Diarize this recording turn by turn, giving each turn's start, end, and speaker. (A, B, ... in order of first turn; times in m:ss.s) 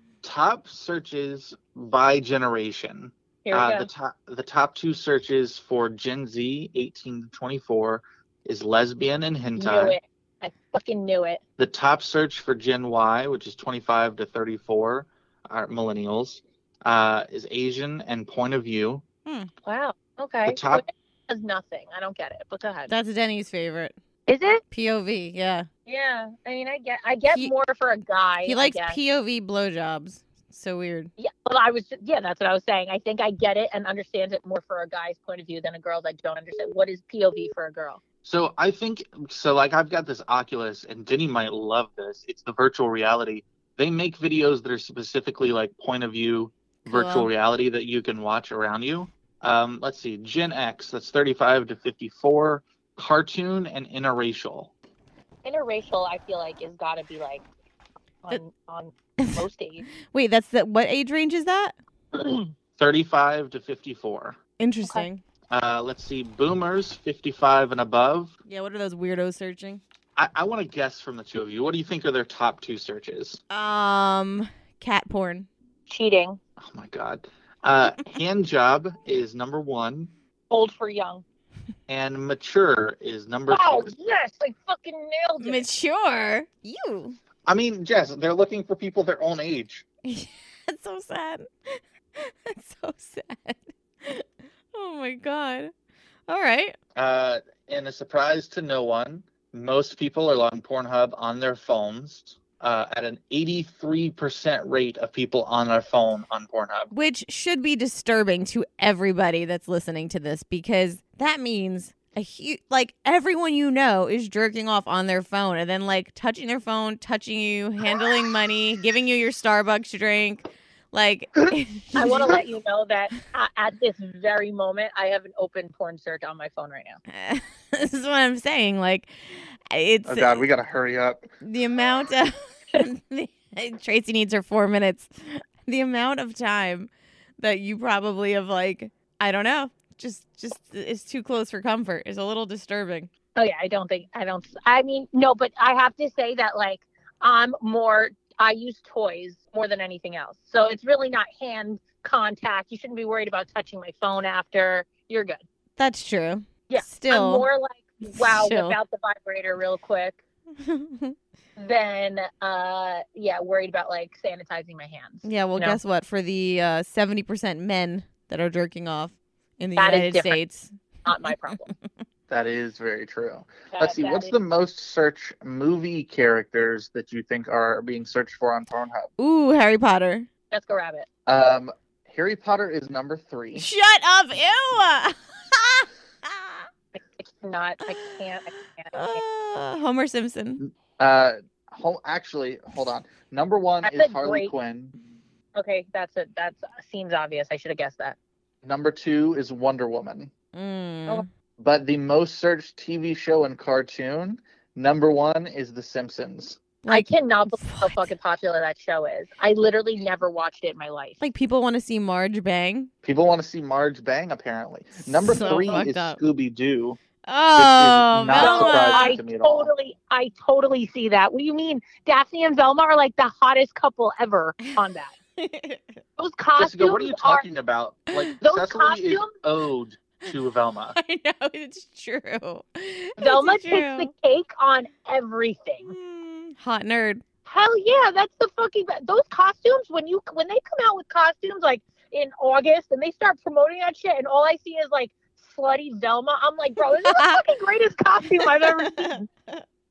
0:00.2-0:10.0 A
0:03.4-0:03.9 B
0:09.6-0:11.4 B
0:11.6-0:19.0 A
0:19.6-0:22.9 B
0:20.4-0:20.8 A
0:22.9-0:24.0 C
0:24.3-0:24.6 B
0:24.7-0:25.7 C
0:25.9-0:29.0 B
0:28.4-0:31.1 C
0:31.2-0:38.0 B
0:38.2-0:54.7 A
0:46.9-0:47.3 C
0:55.4-0:57.4 B
0:58.2-0:59.9 B
0:59.2-0:59.5 C
1:00.1-1:01.8 C
1:02.1-1:02.5 B
1:02.8-1:04.4 A
1:04.6-1:05.2 C
1:05.5-1:08.4 A
1:08.5-1:09.8 C
1:10.2-1:13.4 A
1:13.5-1:15.5 C
1:15.9-1:16.4 B
1:16.6-1:20.1 A
1:20.5-1:21.2 B
1:21.9-1:23.9 A
1:23.5-1:25.7 B
1:25.4-1:27.2 C
1:27.5-1:29.8 A
1:30.0-1:35.7 C
1:36.3-1:36.8 C
1:37.0-1:46.9 A
1:46.9-2:02.3 C
2:02.0-2:07.0 B
2:07.1-2:10.4 C
2:10.1-2:11.3 A
2:11.4-2:23.1 C
2:23.4-2:35.4 B
2:35.8-2:37.5 C
2:36.7-2:40.2 B
2:38.1-2:38.8 C
2:40.7-2:41.1 C
2:41.6-2:45.8 B
2:45.2-2:50.7 C
2:49.8-2:50.4 B
2:51.0-2:51.7 B
2:52.3-2:59.1 A
2:53.7-2:54.3 B
2:59.2-3:00.3 C
3:00.5-3:01.1 B
3:01.3-3:03.7 A
3:03.6-3:06.6 C
3:07.0-3:09.2 B
3:08.9-3:10.6 C
3:10.6-3:14.9 A
3:13.8-3:14.5 B
3:15.6-3:18.2 B
3:18.6-3:20.3 A
3:20.5-3:21.2 C
3:21.6-3:26.6 A
3:26.8-3:28.0 C
3:26.9-3:31.2 B
3:31.2-3:32.9 C
3:33.0-3:37.0 A
3:35.1-3:36.2 C
3:37.3-3:39.2 C
3:37.6-3:39.7 A
3:38.3-3:45.1 B
3:45.4-3:46.0 C
3:46.2-3:47.5 B
3:46.6-3:51.0 A
3:48.4-3:49.3 B
3:51.0-3:54.1 C
3:53.2-3:55.9 B
3:55.9-3:57.2 C
3:57.5-4:09.2 B
4:07.1-4:07.4 C
4:08.6-4:09.1 C